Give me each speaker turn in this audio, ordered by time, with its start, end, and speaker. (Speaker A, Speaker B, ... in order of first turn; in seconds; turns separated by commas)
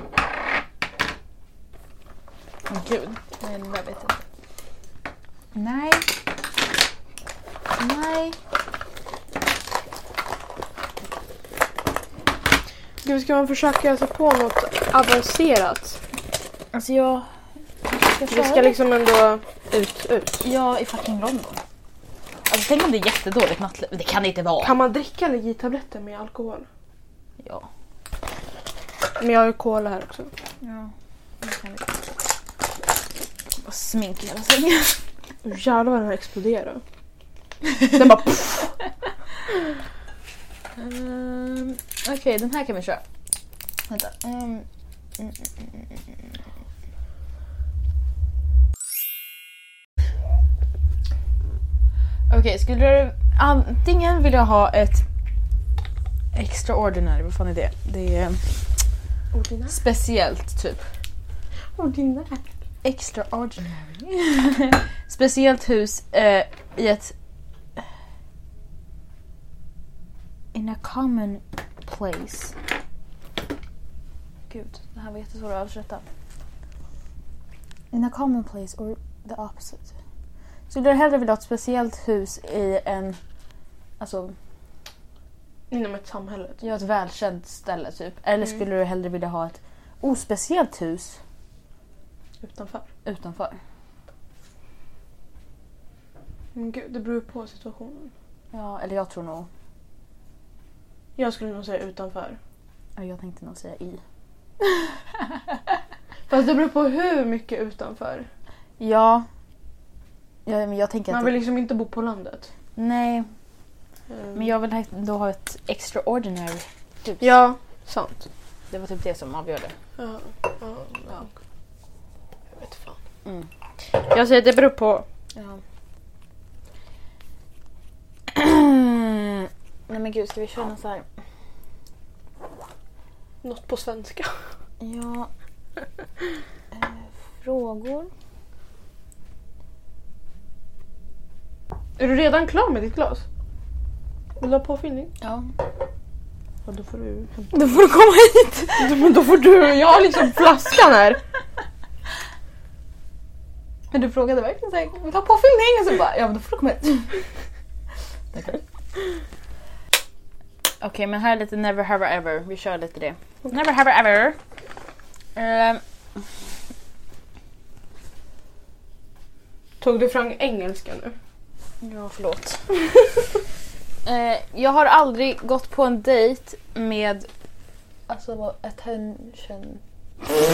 Speaker A: 2.7-4.2, Speaker A: 5.5-6.1, Speaker A: 7.8-8.4, Speaker B: 13.0-16.0, Speaker A: 16.7-17.3, Speaker A: 17.9-18.8, Speaker B: 18.3-20.4, Speaker A: 20.4-21.6, Speaker A: 22.5-24.7, Speaker B: 24.6-26.7, Speaker A: 27.4-27.7, Speaker B: 29.2-30.3, Speaker A: 30.6-32.0, Speaker A: 33.6-35.0, Speaker B: 35.4-36.8, Speaker B: 37.9-38.8, Speaker A: 40.8-43.0, Speaker A: 43.9-44.6, Speaker A: 45.2-46.2, Speaker A: 52.3-55.0, Speaker A: 56.3-58.8, Speaker B: 59.3-59.8, Speaker A: 59.7-60.9, Speaker B: 61.8-62.4, Speaker A: 62.8-67.1, Speaker A: 70.5-72.5, Speaker A: 74.5-76.0, Speaker A: 77.9-79.9, Speaker A: 80.7-83.2, Speaker A: 84.0-84.3, Speaker B: 85.7-86.6, Speaker A: 86.6-91.2, Speaker B: 92.4-92.9, Speaker A: 93.0-93.6, Speaker B: 96.5-98.1, Speaker A: 98.5-99.5, Speaker B: 101.2-102.4, Speaker A: 103.0-104.0, Speaker A: 104.6-105.6, Speaker B: 106.3-108.3, Speaker A: 108.8-109.3, Speaker A: 110.5-111.4, Speaker B: 111.1-112.5, Speaker A: 112.8-113.3, Speaker B: 114.1-114.5, Speaker A: 114.3-117.3, Speaker B: 117.2-118.2, Speaker A: 118.7-119.7, Speaker B: 120.0-121.3, Speaker B: 122.6-123.0, Speaker B: 123.9-125.1, Speaker A: 125.3-125.6, Speaker A: 128.3-131.1, Speaker B: 133.4-134.5, Speaker A: 134.8-135.3, Speaker A: 136.7-138.1, Speaker B: 142.0-143.2, Speaker B: 144.4-145.1, Speaker A: 145.2-145.5, Speaker B: 146.6-147.5, Speaker A: 147.5-148.9, Speaker B: 148.8-151.2, Speaker A: 153.9-157.2, Speaker A: 158.3-158.6, Speaker A: 160.8-164.4, Speaker A: 165.4-165.8, Speaker B: 169.8-171.2, Speaker A: 171.8-172.6, Speaker A: 174.1-177.3, Speaker A: 178.1-180.3